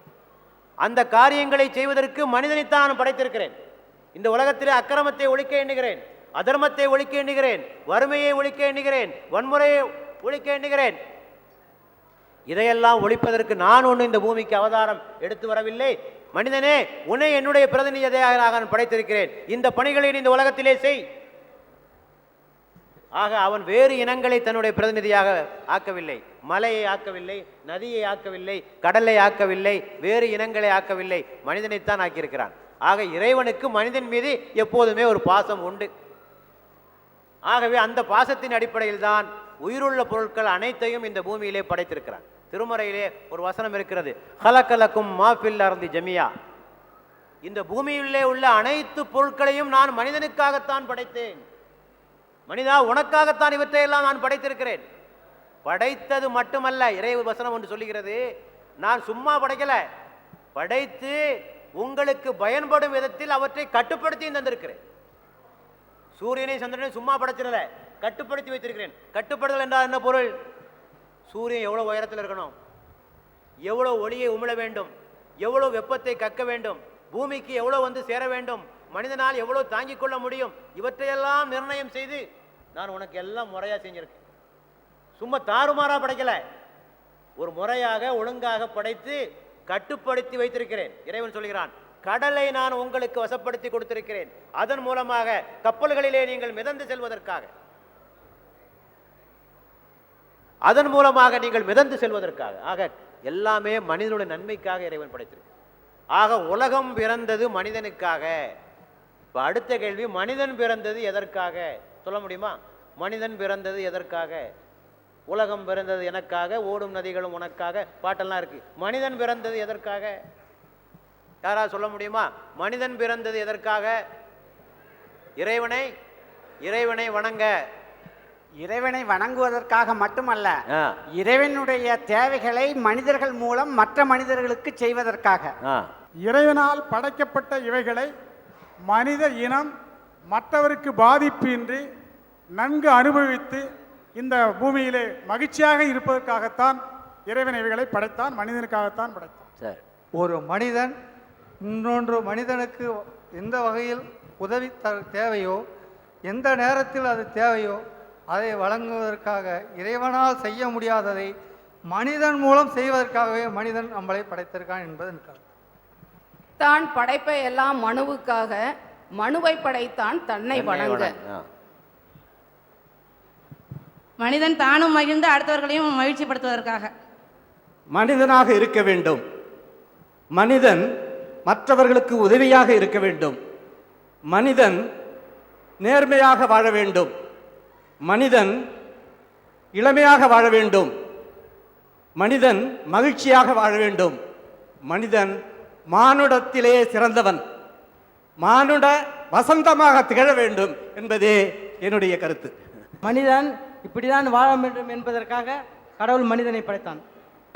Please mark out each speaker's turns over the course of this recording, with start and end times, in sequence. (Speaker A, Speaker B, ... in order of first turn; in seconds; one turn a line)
Speaker A: 0.8-3.5
Speaker A: 4.2-11.0
Speaker A: 12.5-21.0
Speaker A: 23.2-35.9
Speaker A: 37.5-46.3
Speaker A: 47.5-51.4
Speaker A: 52.5-54.8
Speaker A: 55.7-58.2
Speaker A: 58.8-59.8
Speaker A: 60.6-61.2
Speaker A: 61.8-64.8
Speaker A: 66.2-70.3
Speaker A: 71.3-72.5
Speaker A: 73.7-74.9
Speaker A: 75.4-82.2
Speaker A: 82.8-84.2
Speaker A: 85.2-86.4
Speaker A: 87.4-97.5
Speaker A: 100.7-105.5
Speaker A: 106.2-108.3
Speaker A: 109.3-114.4
Speaker A: 115.3-120.2
Speaker A: 121.4-124.0
Speaker A: 125.4-125.9
Speaker A: 126.7-127.5
Speaker B: 128.6-130.6
Speaker B: 131.1-135.6
Speaker C: 136.3-138.1
Speaker C: 138.9-139.7
Speaker C: 140.3-141.8
Speaker C: 142.6-143.6
Speaker C: 144.2-149.4
Speaker D: 150.2-150.9
Speaker D: 151.6-155.6
Speaker D: 156.3-157.8
Speaker D: 158.3-161.3
Speaker D: 161.9-165.4
Speaker E: 166.6-168.5
Speaker F: 166.8-168.5
Speaker E: 169.2-169.5
Speaker F: 169.3-171.0
Speaker E: 170.0-171.1
Speaker A: 170.5-171.4
Speaker F: 174.2-176.9
Speaker G: 177.9-179.2
Speaker G: 180.3-180.8
Speaker G: 181.5-183.4
Speaker G: 184.3-184.8
Speaker G: 185.8-187.1
Speaker G: 188.0-188.5
Speaker G: 189.8-190.9
Speaker G: 192.2-194.2
Speaker G: 194.9-195.4
Speaker G: 195.9-197.4
Speaker G: 198.4-202.5
Speaker H: 203.0-207.0